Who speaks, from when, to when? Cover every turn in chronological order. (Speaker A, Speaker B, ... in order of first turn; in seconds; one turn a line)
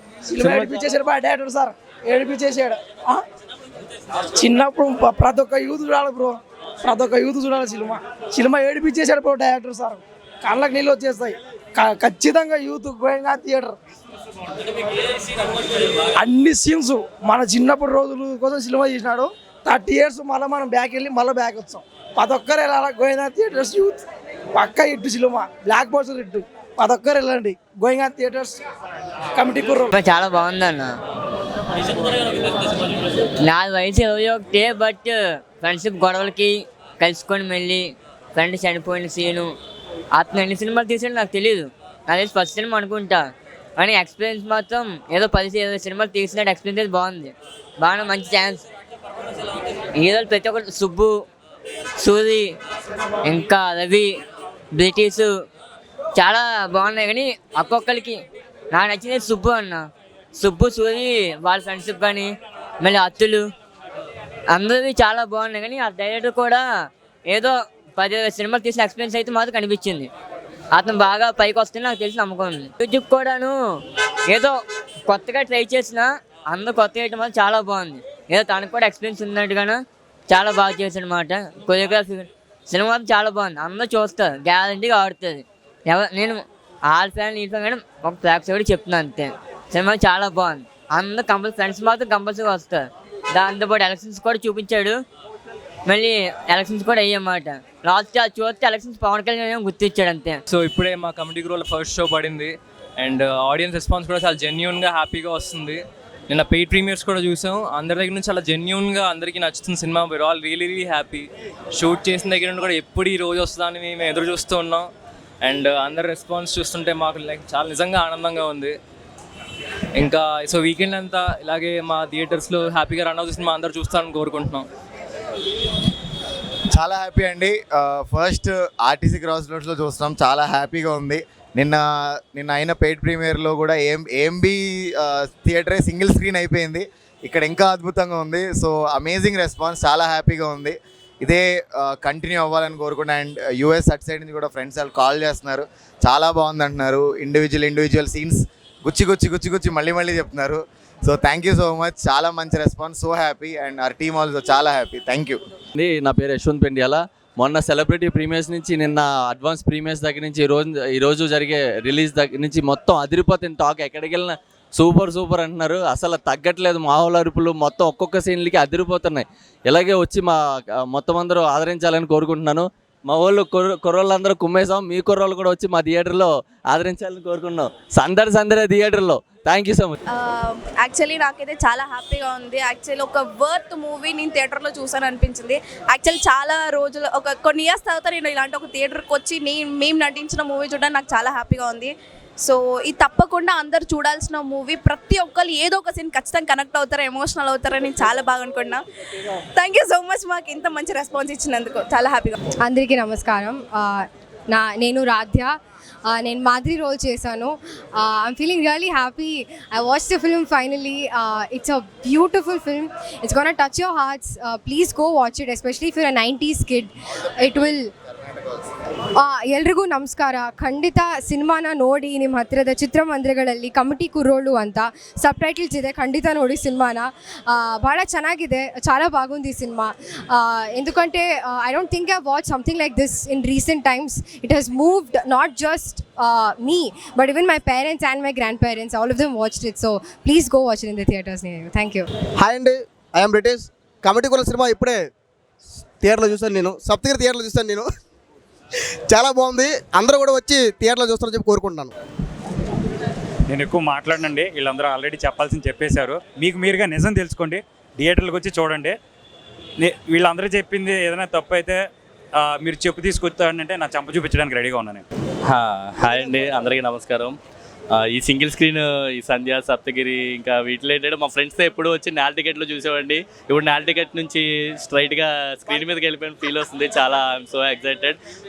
Speaker A: 0.2-3.2
Speaker B: 0.4-0.8
Speaker A: 4.3-13.8
Speaker A: 16.1-24.0
Speaker A: 24.6-28.6
Speaker A: 29.3-29.9
Speaker C: 29.9-30.9
Speaker C: 33.4-39.5
Speaker C: 40.1-43.2
Speaker C: 43.8-48.6
Speaker C: 50.0-51.2
Speaker C: 52.0-52.5
Speaker C: 53.2-54.1
Speaker C: 54.7-55.3
Speaker C: 56.2-58.2
Speaker C: 58.7-63.5
Speaker C: 64.5-66.7
Speaker C: 67.3-70.1
Speaker C: 70.7-73.6
Speaker C: 74.3-95.0
Speaker C: 95.9-100.4
Speaker D: 100.5-114.9
Speaker D: 115.4-118.7
Speaker D: 120.0-124.7
Speaker E: 126.7-155.4
Speaker B: 155.8-179.9
Speaker F: 180.1-198.8
Speaker F: 199.6-202.4
Speaker G: 202.6-205.5
Speaker G: 206.1-217.9
Speaker G: 219.1-242.1
Speaker H: 242.4-245.1
Speaker H: 246.0-247.9
Speaker H: 249.1-251.9
Speaker I: 253.5-259.0
Speaker I: 259.8-261.8
Speaker I: 262.4-265.0
Speaker J: 265.4-267.4
Speaker J: 267.9-278.2